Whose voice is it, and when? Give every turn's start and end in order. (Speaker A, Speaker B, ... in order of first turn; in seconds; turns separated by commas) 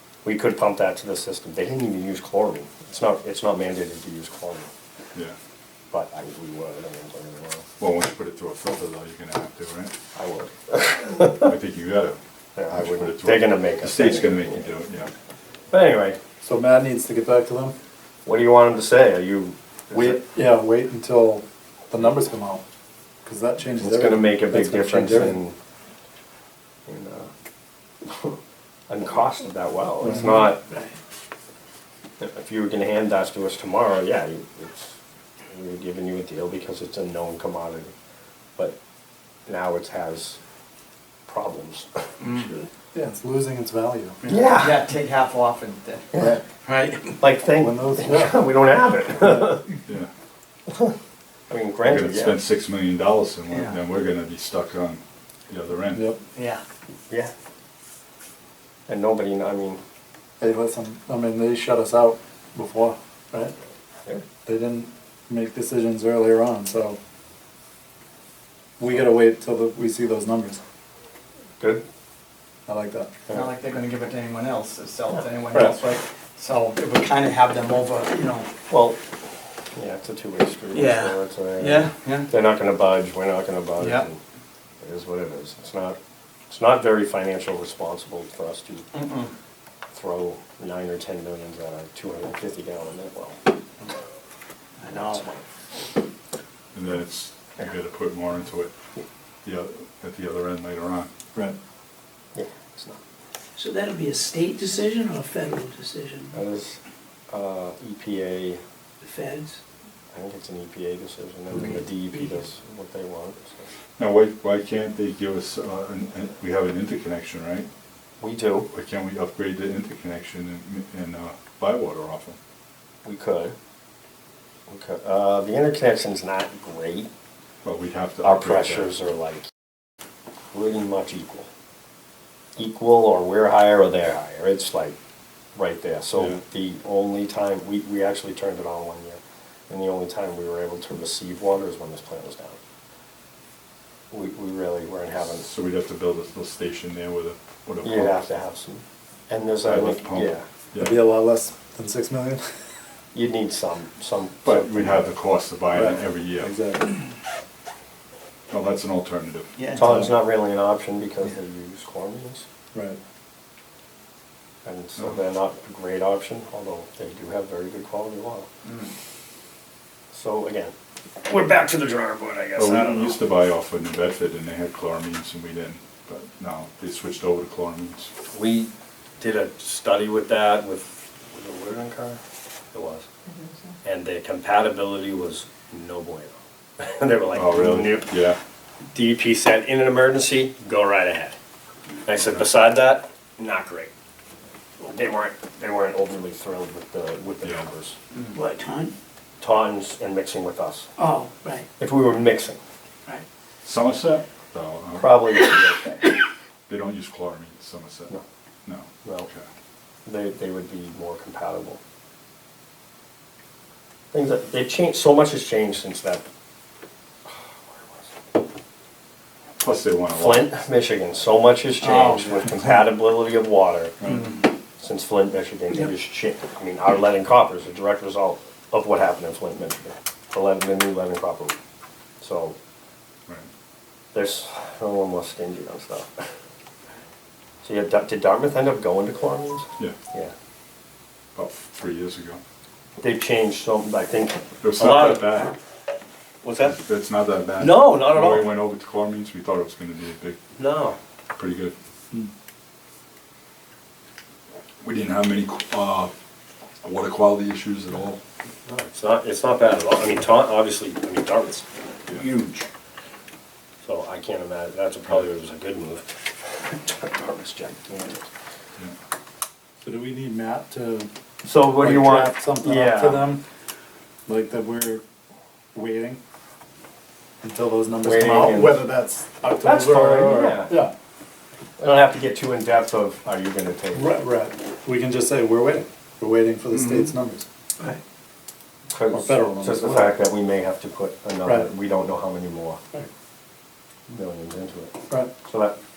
Speaker A: 0.2-4.7, Speaker A: 5.9-7.7, Speaker B: 7.8-9.9, Speaker A: 10.1-11.5, Speaker B: 11.3-12.2, Speaker A: 12.6-14.7, Speaker B: 12.7-15.1, Speaker A: 15.7-16.2, Speaker C: 16.4-17.8, Speaker A: 18.2-20.2, Speaker C: 19.9-22.6, Speaker C: 23.2-25.4, Speaker A: 23.8-25.6, Speaker A: 26.9-27.3, Speaker A: 28.0-28.4, Speaker A: 28.9-30.6, Speaker C: 30.0-30.4, Speaker A: 32.2-35.0, Speaker A: 35.5-37.9, Speaker A: 39.5-40.4, Speaker A: 41.3-41.9, Speaker D: 42.4-42.7, Speaker C: 42.9-44.2, Speaker A: 44.3-44.8, Speaker E: 44.5-46.1, Speaker A: 46.1-46.4, Speaker D: 46.7-47.1, Speaker A: 47.2-49.7, Speaker C: 47.6-48.4, Speaker C: 49.2-49.6, Speaker A: 50.7-51.0, Speaker A: 51.5-52.4, Speaker B: 51.9-56.1, Speaker E: 53.5-53.8, Speaker E: 56.4-56.6, Speaker A: 58.9-59.8, Speaker C: 60.4-63.5, Speaker C: 64.5-67.0, Speaker C: 68.8-70.6, Speaker C: 72.7-73.1, Speaker A: 73.3-73.5, Speaker E: 73.3-78.5, Speaker C: 75.5-75.8, Speaker A: 78.7-79.0, Speaker A: 79.7-84.2, Speaker E: 80.7-82.3, Speaker E: 83.8-84.1, Speaker A: 84.8-86.0, Speaker A: 86.5-88.9, Speaker E: 88.9-89.3, Speaker A: 89.9-93.4, Speaker E: 94.8-95.2, Speaker A: 94.9-95.5, Speaker B: 96.7-98.7, Speaker B: 99.4-101.1, Speaker A: 102.3-103.0, Speaker D: 103.6-106.4, Speaker A: 106.3-108.6, Speaker D: 109.0-109.6, Speaker A: 110.1-113.7, Speaker B: 114.0-117.7, Speaker A: 118.2-118.7, Speaker B: 118.7-122.4, Speaker A: 123.0-123.6, Speaker A: 124.7-127.1, Speaker B: 127.6-128.9, Speaker A: 128.2-129.4, Speaker A: 130.5-131.5, Speaker A: 132.6-134.9, Speaker A: 135.6-142.6, Speaker A: 144.1-145.5, Speaker B: 145.2-148.2, Speaker A: 147.8-150.5, Speaker B: 149.6-151.0, Speaker C: 150.8-152.5, Speaker A: 153.1-155.0, Speaker B: 154.4-156.5, Speaker C: 155.7-156.9, Speaker B: 158.5-159.5, Speaker E: 159.6-160.1, Speaker A: 159.7-162.5, Speaker C: 162.7-163.0, Speaker A: 164.7-168.5, Speaker A: 170.1-173.2, Speaker B: 172.6-178.1, Speaker A: 178.3-182.2, Speaker A: 182.7-183.1, Speaker A: 183.8-188.1, Speaker B: 187.3-188.4, Speaker A: 188.9-191.4, Speaker A: 192.1-193.9, Speaker A: 194.8-198.0, Speaker D: 198.3-198.9, Speaker A: 199.4-200.9, Speaker D: 201.0-201.7, Speaker A: 201.8-202.6, Speaker B: 203.6-205.3, Speaker A: 205.0-206.1, Speaker B: 206.7-208.1, Speaker B: 208.7-209.4, Speaker A: 209.0-209.3, Speaker A: 210.1-211.8, Speaker A: 214.1-216.2, Speaker A: 217.3-218.1, Speaker B: 219.6-220.5, Speaker A: 220.1-223.9, Speaker E: 221.8-222.8, Speaker B: 224.0-224.4, Speaker A: 224.8-231.6, Speaker A: 232.2-232.6, Speaker A: 234.1-236.2, Speaker A: 237.6-240.3, Speaker B: 241.3-242.4, Speaker A: 243.0-245.6, Speaker B: 244.6-245.5, Speaker A: 246.4-246.8, Speaker B: 246.7-250.4, Speaker A: 247.6-248.6, Speaker A: 250.6-251.0, Speaker B: 251.3-251.7, Speaker B: 254.8-256.1, Speaker B: 256.8-258.2, Speaker A: 258.7-261.7, Speaker B: 262.1-262.7, Speaker A: 263.8-268.3, Speaker C: 269.8-271.1, Speaker A: 271.4-273.3, Speaker C: 271.8-273.4, Speaker C: 274.3-275.0, Speaker C: 275.7-276.2, Speaker C: 277.4-280.9, Speaker A: 278.0-278.8, Speaker A: 279.6-280.8, Speaker A: 281.8-284.2, Speaker C: 283.9-287.4, Speaker A: 288.9-292.8, Speaker C: 289.1-290.1, Speaker C: 291.4-291.7, Speaker A: 294.1-295.8